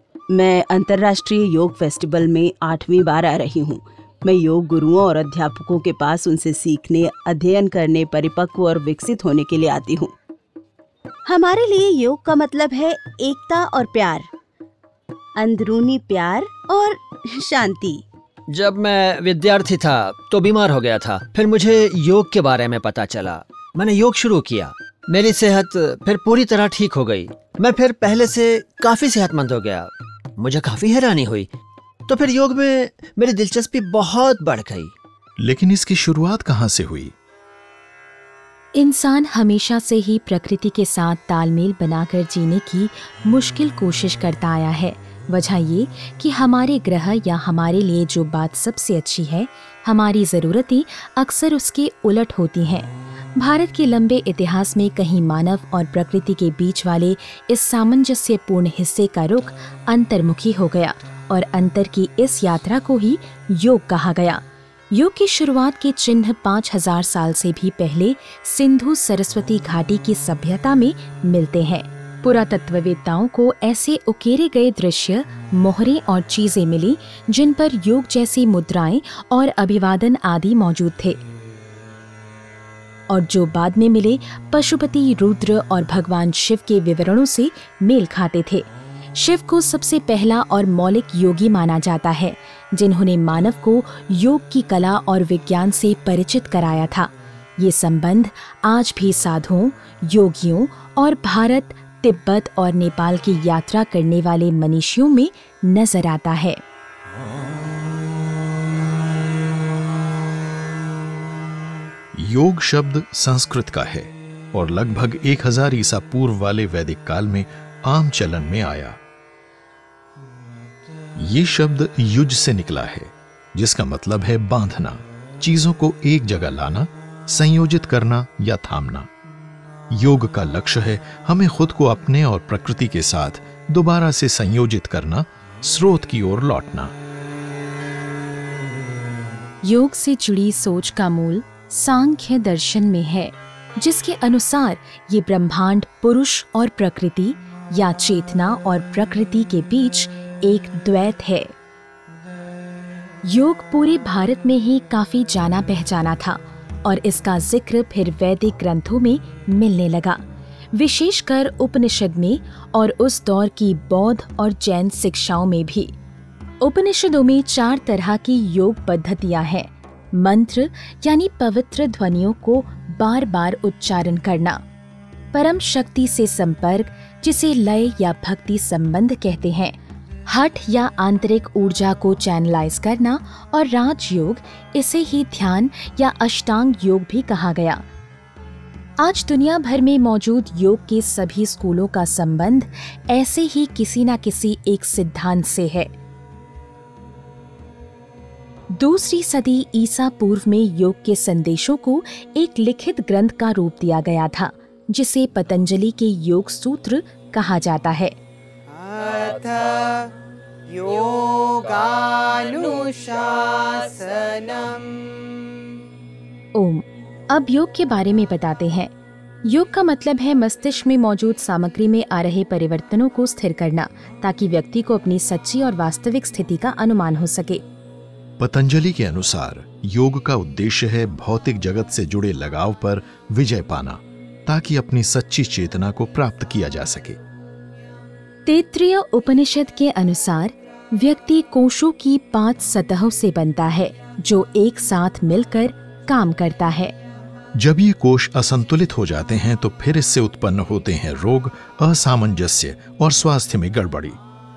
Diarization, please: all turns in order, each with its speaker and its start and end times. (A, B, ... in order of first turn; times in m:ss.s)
0:00.3-0:10.1 A
0:11.3-0:14.3 B
0:15.4-0:18.0 B
0:18.5-0:31.5 C
0:32.1-0:34.9 C
0:35.4-0:37.1 D
0:38.7-1:21.2 E
1:23.1-1:46.6 E
1:52.1-1:59.0 D
2:01.2-2:09.1 D
2:09.9-2:16.9 D
2:19.6-2:31.5 E
2:33.2-2:40.2 E
2:40.7-2:45.9 E
2:46.6-2:54.6 E
2:55.3-2:59.8 E
3:00.3-3:07.8 E
3:09.0-3:15.9 E
3:18.7-3:28.2 E
3:28.7-3:30.1 F
3:30.7-3:35.1 F
3:36.6-3:38.9 E
3:39.4-3:47.6 E
3:48.4-3:57.2 D
3:58.4-4:07.0 E
4:07.5-4:14.2 D